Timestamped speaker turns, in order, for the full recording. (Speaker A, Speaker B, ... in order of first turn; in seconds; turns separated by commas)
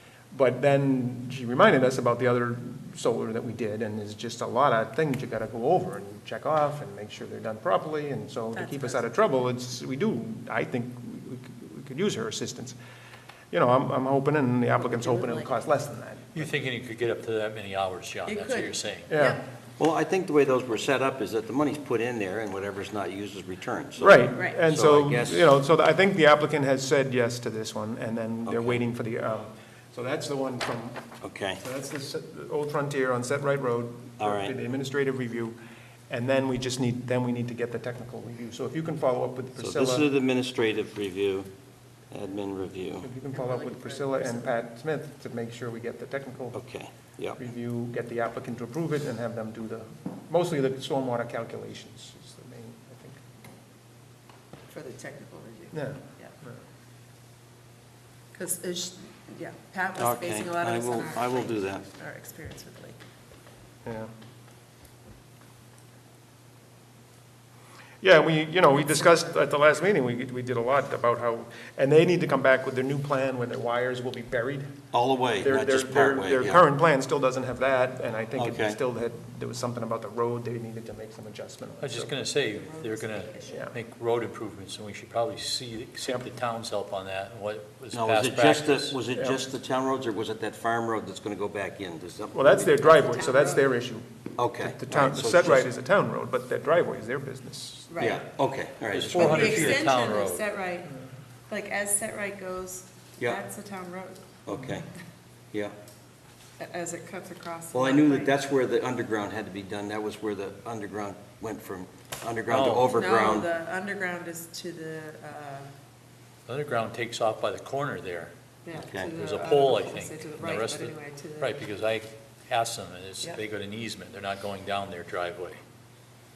Speaker A: 0.3-12.8, Speaker B: 8.5-9.1, Speaker A: 13.5-16.5, Speaker B: 14.7-15.6, Speaker C: 16.3-19.1, Speaker B: 18.3-19.4, Speaker A: 19.1-19.4, Speaker D: 19.8-25.5, Speaker A: 24.0-31.1, Speaker B: 24.3-24.6, Speaker D: 28.4-28.8, Speaker D: 31.2-31.6, Speaker A: 31.6-35.6, Speaker D: 34.2-34.5, Speaker A: 36.1-40.1, Speaker D: 39.6-41.5, Speaker D: 42.1-43.1, Speaker A: 43.0-46.6, Speaker B: 43.3-44.5, Speaker D: 46.5-47.4, Speaker A: 47.4-53.2, Speaker B: 54.7-56.3, Speaker A: 55.7-56.6, Speaker B: 58.3-63.0, Speaker D: 60.0-61.8, Speaker A: 63.8-64.1, Speaker A: 68.0-74.9, Speaker B: 68.8-69.4, Speaker D: 74.9-76.6, Speaker A: 75.4-82.1, Speaker D: 78.3-78.8, Speaker C: 81.8-89.0, Speaker B: 82.5-83.6, Speaker A: 83.5-83.7, Speaker D: 87.9-92.7, Speaker A: 89.1-89.5, Speaker A: 92.3-98.1, Speaker B: 92.7-93.8, Speaker D: 94.4-95.7, Speaker B: 97.9-98.2, Speaker D: 98.0-99.9, Speaker C: 98.9-100.4, Speaker B: 99.1-100.9, Speaker B: 101.5-104.4, Speaker D: 104.5-104.9, Speaker B: 106.6-108.3, Speaker D: 107.7-113.5, Speaker C: 112.5-112.9, Speaker B: 112.9-115.7, Speaker C: 116.5-118.3, Speaker B: 118.6-121.5, Speaker D: 118.7-119.2, Speaker C: 119.2-125.6